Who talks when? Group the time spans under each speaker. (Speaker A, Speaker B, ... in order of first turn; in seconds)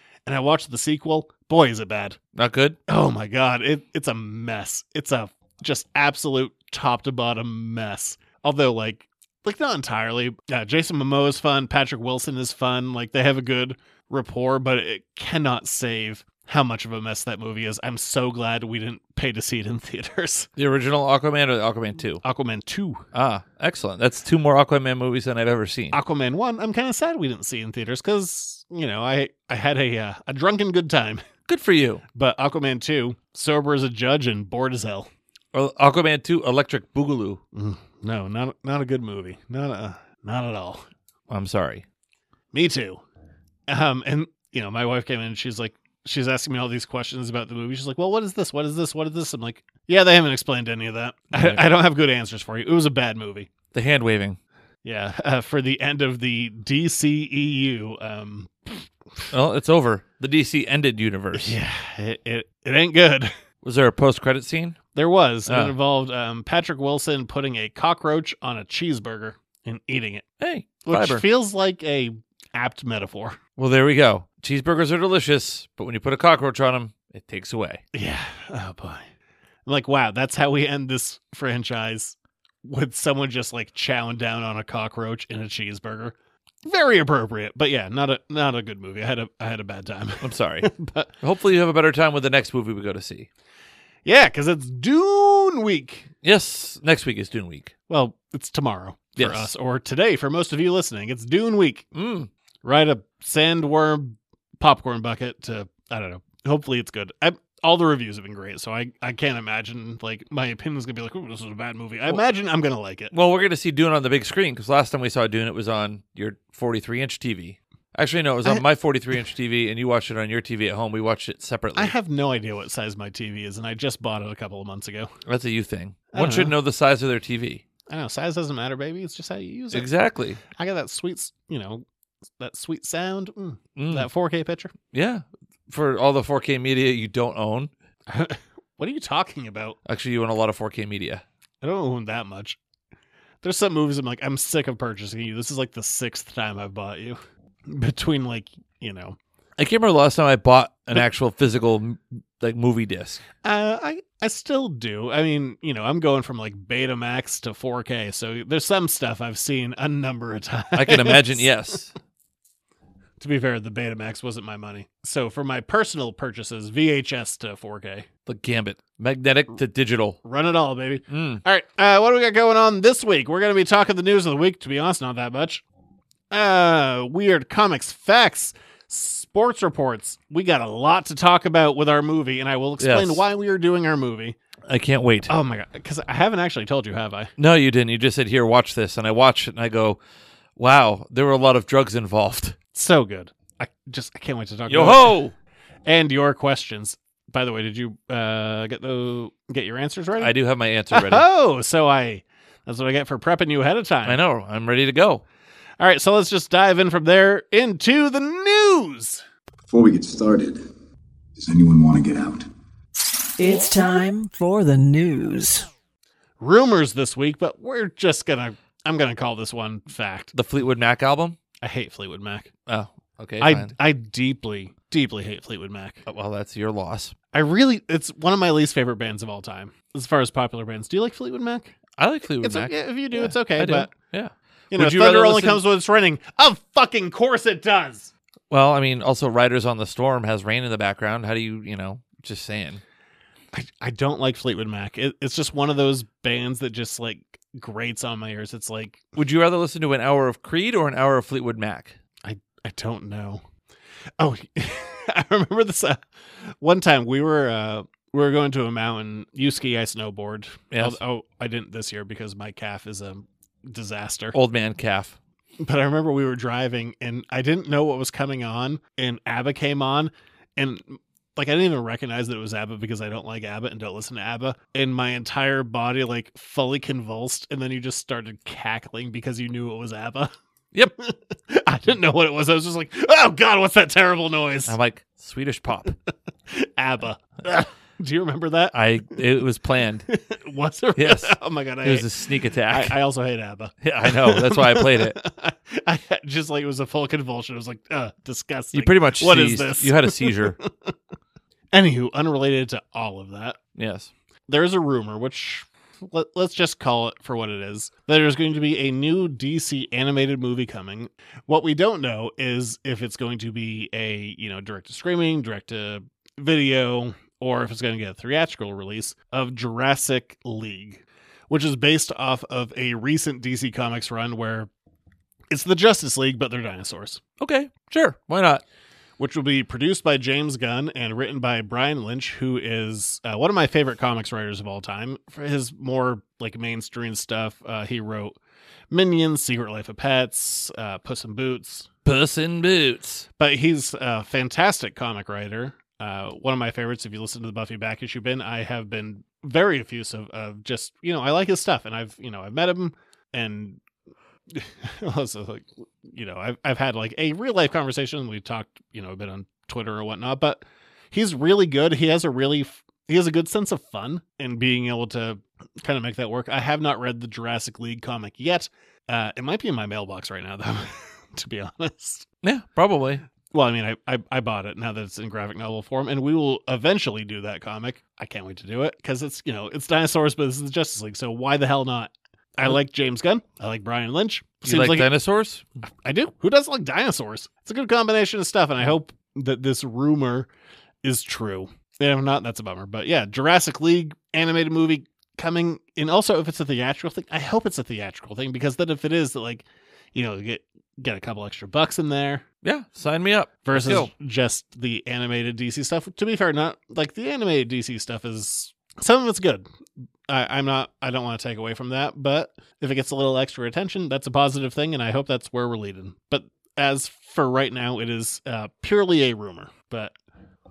Speaker A: 0.3-2.2, 2.9-20.5, 22.2-23.0, 25.9-31.2, 32.1-35.1, 37.5-40.8, 42.5-43.0, 43.7-53.5, 54.8-58.9, 61.3-63.3, 65.0-70.2, 70.8-73.4, 77.9-79.0, 79.7-91.1, 94.0-96.1, 97.9-101.9, 102.6-113.1, 121.8-125.1, 126.1-126.5, 127.9-129.9, 130.6-131.8, 132.4-134.7, 138.1-139.8, 141.6-142.6, 143.4-149.2, 153.4-161.5, 163.2-168.1, 170.2-175.6, 176.3-184.4, 185.3-187.3, 192.7-195.2, 195.9-200.3, 200.9-204.2, 205.8-209.2, 216.4-220.3, 221.6-222.5, 223.4-226.1, 227.3-231.8, 232.4-233.9, 234.7-238.1, 243.5-249.0, 252.2-253.4, 254.2-264.4, 265.6-280.3, 281.0-284.8, 286.5-288.8, 290.1-292.1, 292.7-300.9, 301.7-303.6, 304.5-324.7, 325.5-327.2, 329.2-338.4, 338.9-341.9, 343.4-353.8, 354.5-372.3, 373.5-385.1, 386.1-390.5, 391.0-402.4, 403.7-409.7, 410.3-420.1
Speaker B: 2.4-2.8, 20.6-22.2, 23.1-26.0, 31.5-32.0, 35.5-37.4, 41.3-41.9, 51.3-51.6, 53.7-54.4, 59.3-61.5, 63.6-64.8, 65.5-65.8, 70.4-71.2, 73.6-77.8, 90.2-93.3, 96.2-97.7, 99.2-99.5, 101.9-102.3, 113.1-121.9, 125.3-127.6, 129.7-130.4, 133.8-134.1, 134.9-137.7, 139.8-141.2, 149.6-153.2, 160.7-161.9, 168.3-170.2, 171.1-171.4, 182.8-183.2, 184.7-185.3, 187.4-190.0, 190.6-192.6, 194.7-195.3, 200.2-201.3, 204.0-205.2, 220.3-221.4, 222.7-223.7, 226.1-227.1, 232.0-235.6, 238.5-242.8, 249.2-252.0, 260.7-261.0, 264.3-265.2, 284.7-285.9, 288.7-290.1, 291.0-293.0, 293.8-295.2, 298.7-300.6, 303.8-304.1, 327.4-328.6, 342.1-343.3, 372.4-373.2, 384.6-385.7, 402.6-404.1
Speaker C: 209.7-210.7, 211.4-212.5
Speaker D: 213.4-215.7